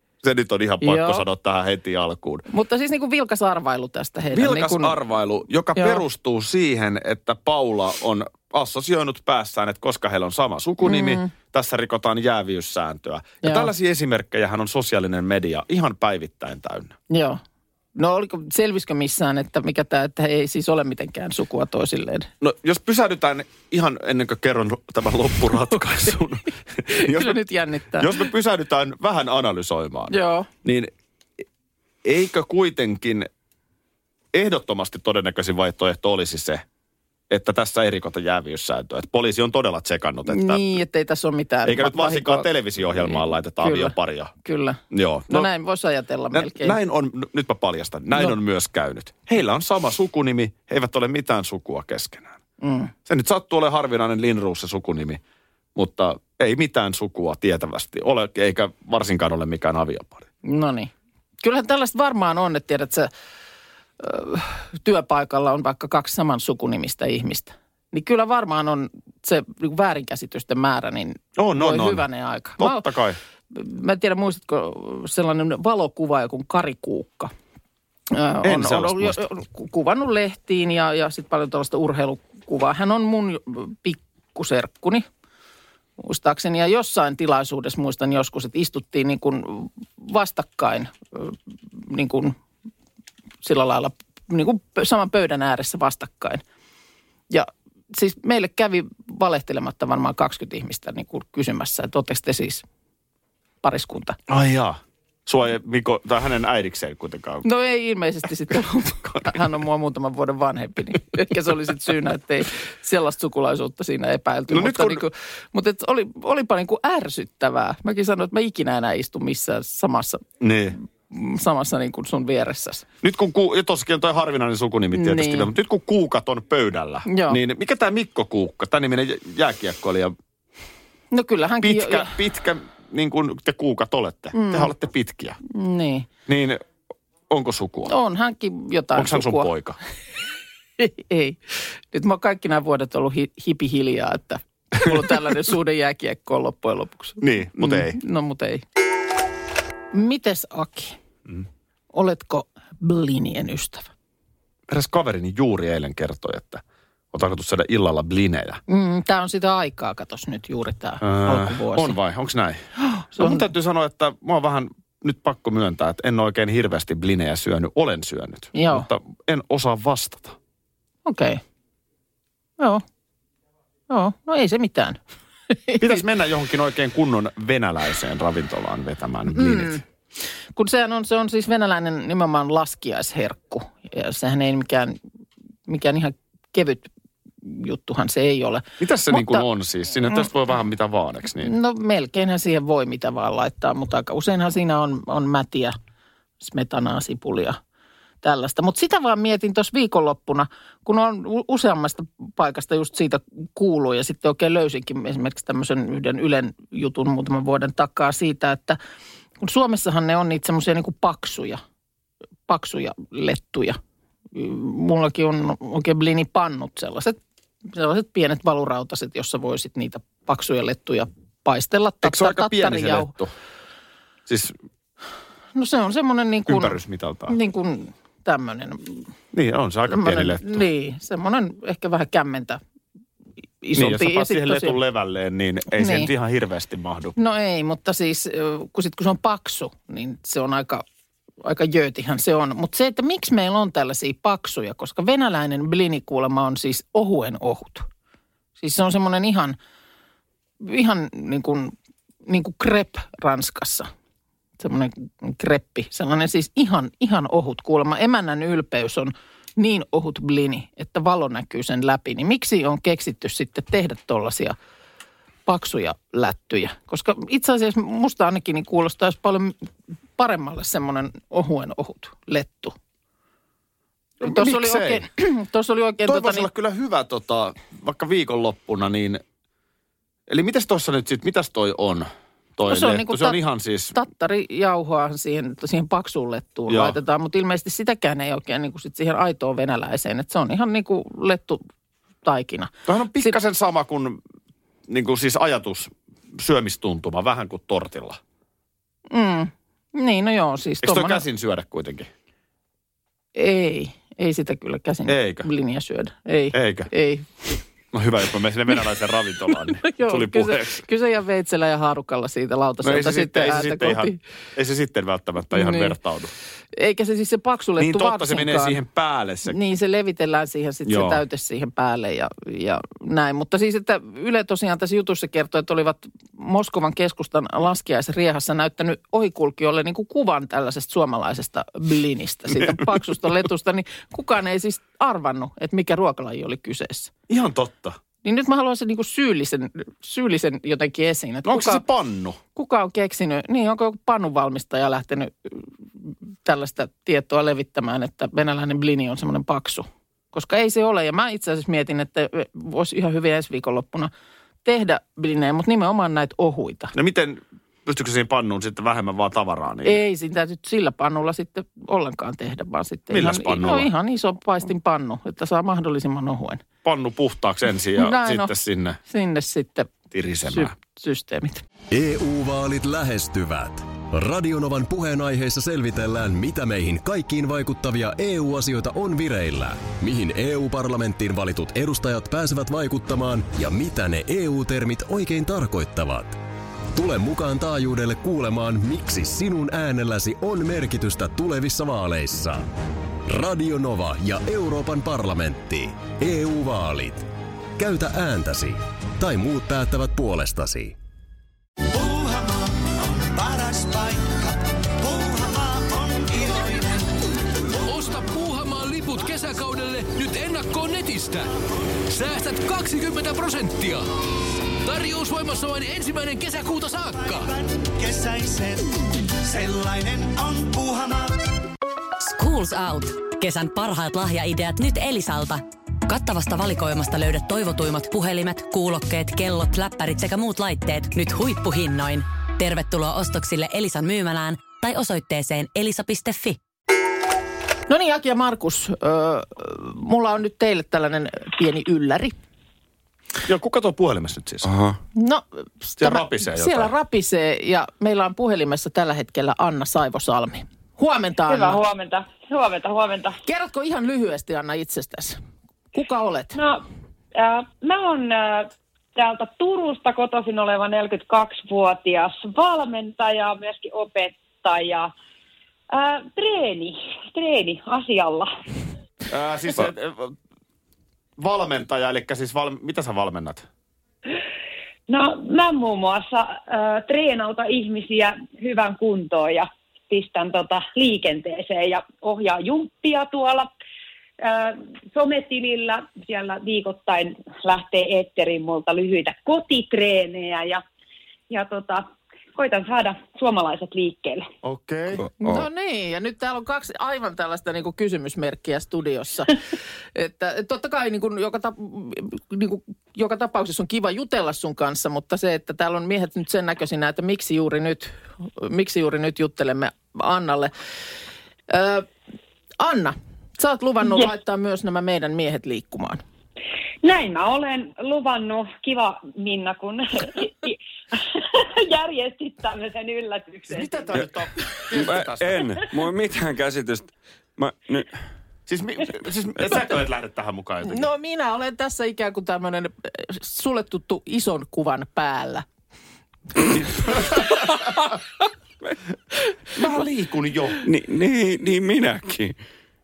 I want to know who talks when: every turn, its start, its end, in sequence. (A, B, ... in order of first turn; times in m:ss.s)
0:00.2-0:02.4 A
0:00.8-0:01.2 B
0:02.5-0:05.0 B
0:04.3-0:17.0 A
0:05.8-0:06.0 B
0:10.8-0:11.3 B
0:13.4-0:13.7 B
0:17.1-0:17.4 B
0:18.0-0:22.3 B
0:22.4-0:27.4 A
0:26.9-0:28.3 B
0:27.9-0:30.9 A
0:30.1-0:30.5 B
0:32.0-0:33.3 A
0:34.3-0:36.6 A
0:37.3-0:40.7 A
0:40.3-0:46.8 B
0:41.6-0:44.3 A
0:44.9-0:45.5 A
0:46.3-0:52.4 A
0:52.6-0:52.9 B
0:53.1-0:55.2 A
0:55.8-1:00.3 A
1:00.4-1:00.9 B
1:01.4-1:03.1 B
1:04.0-1:12.8 B
1:11.4-1:12.0 A
1:12.6-1:13.2 A
1:13.5-1:17.3 B
1:18.1-1:25.0 B
1:18.4-1:19.2 A
1:26.0-1:32.4 B
1:33.4-1:36.4 B
1:37.3-1:42.6 B
1:43.6-1:44.2 B
1:44.3-1:47.5 A
1:47.4-2:00.2 B
1:54.5-1:55.0 A
2:00.4-2:00.8 A
2:01.1-2:02.8 B
2:03.0-2:10.1 A
2:04.9-2:05.5 B
2:07.1-2:07.4 B
2:11.1-2:12.2 B
2:11.6-2:15.4 A
2:14.3-2:14.7 B
2:15.4-2:16.1 B
2:16.3-2:16.6 A
2:17.3-2:17.9 A
2:17.9-2:19.5 B
2:19.0-2:19.8 A
2:20.8-2:28.6 B
2:27.2-2:28.0 A
2:29.9-2:31.0 B
2:31.9-2:33.9 B
2:34.7-2:38.6 A
2:38.7-2:42.0 B
2:41.0-2:42.6 A
2:42.9-2:43.4 B
2:43.2-2:50.4 A
2:48.6-2:48.9 B
2:51.1-2:51.4 B
2:53.9-2:55.0 B
2:55.5-2:56.0 B
2:55.8-2:59.8 A
2:59.3-2:59.8 B
3:00.6-3:05.0 B
3:05.7-3:06.9 B
3:07.4-3:09.5 B
3:08.8-3:11.5 A
3:11.4-3:15.8 B
3:16.4-3:17.6 B
3:18.2-3:28.8 B
3:29.4-3:31.6 B
3:32.5-3:33.8 B
3:34.3-3:43.1 B
3:42.0-3:43.3 A
3:44.3-3:44.5 A
3:45.6-3:49.1 B
3:46.5-3:47.4 A
3:49.3-3:50.6 A
3:49.9-3:52.6 B
3:53.6-3:54.8 B
3:53.7-3:57.1 A
3:55.8-3:56.1 B
3:57.2-4:00.8 B
4:01.4-4:07.9 B
4:08.6-4:09.6 B
4:10.6-4:11.7 B
4:12.2-4:13.9 B
4:14.6-4:24.6 B
4:25.5-4:29.6 B
4:30.2-4:32.8 B
4:34.2-4:35.1 A
4:34.2-4:36.5 B
4:36.0-4:39.2 A
4:40.3-4:44.0 A
4:42.6-4:43.4 B
4:43.9-4:51.6 B
4:46.7-4:47.0 A
4:52.2-4:53.4 B
4:52.9-4:54.2 A
4:54.9-4:58.2 A
4:59.1-5:01.2 B
5:00.8-5:02.1 A
5:03.4-5:07.3 B
5:05.1-5:05.5 A
5:06.5-5:06.9 A
5:07.9-5:10.8 A
5:09.5-5:14.2 B
5:12.8-5:16.3 A
5:15.5-5:16.0 B
5:16.7-5:18.8 B
5:17.8-5:19.6 A
5:19.5-5:37.1 B
5:20.9-5:21.2 A
5:37.3-5:38.0 A
5:38.2-5:41.8 B
5:41.4-5:42.4 A
5:42.6-5:45.7 B
5:46.4-5:54.1 B
5:54.6-5:56.9 B
5:56.9-6:00.0 A
5:59.8-6:06.6 B
6:03.1-6:03.9 A
6:06.8-6:09.0 A
6:08.0-6:08.5 B
6:09.0-6:09.9 B
6:10.1-6:10.7 A
6:10.5-6:11.6 B
6:11.9-6:26.4 C
6:26.9-6:32.7 C
6:33.2-6:41.0 C
6:41.9-6:47.2 D
6:47.8-6:51.5 E
6:52.1-6:54.0 E
6:54.8-6:57.5 E
6:57.1-7:01.4 D
7:02.2-7:16.6 F
7:17.9-7:22.4 B
7:23.4-7:24.7 A
7:24.6-7:25.0 G
7:25.2-7:31.8 B
7:26.0-7:26.9 A
7:31.5-7:33.4 H
7:33.4-7:35.4 B
7:35.9-7:36.6 B
7:36.6-7:36.8 H
7:37.4-7:45.1 H
7:45.9-7:48.5 H
7:49.3-7:50.4 A
7:51.4-7:53.7 A
7:55.1-8:03.7 H
8:04.4-8:10.8 H
8:11.5-8:14.5 H
8:14.6-8:15.2 A
8:15.1-8:15.6 G
8:15.4-8:19.6 B
8:20.2-8:30.7 B
8:31.7-8:32.1 B
8:32.8-8:36.2 B
8:37.0-8:44.2 H
8:43.7-8:45.8 A
8:44.9-8:48.1 G
8:48.7-8:51.1 A
8:50.8-8:55.6 B
8:57.1-8:58.2 B
8:59.8-9:00.8 A
9:00.8-9:02.6 G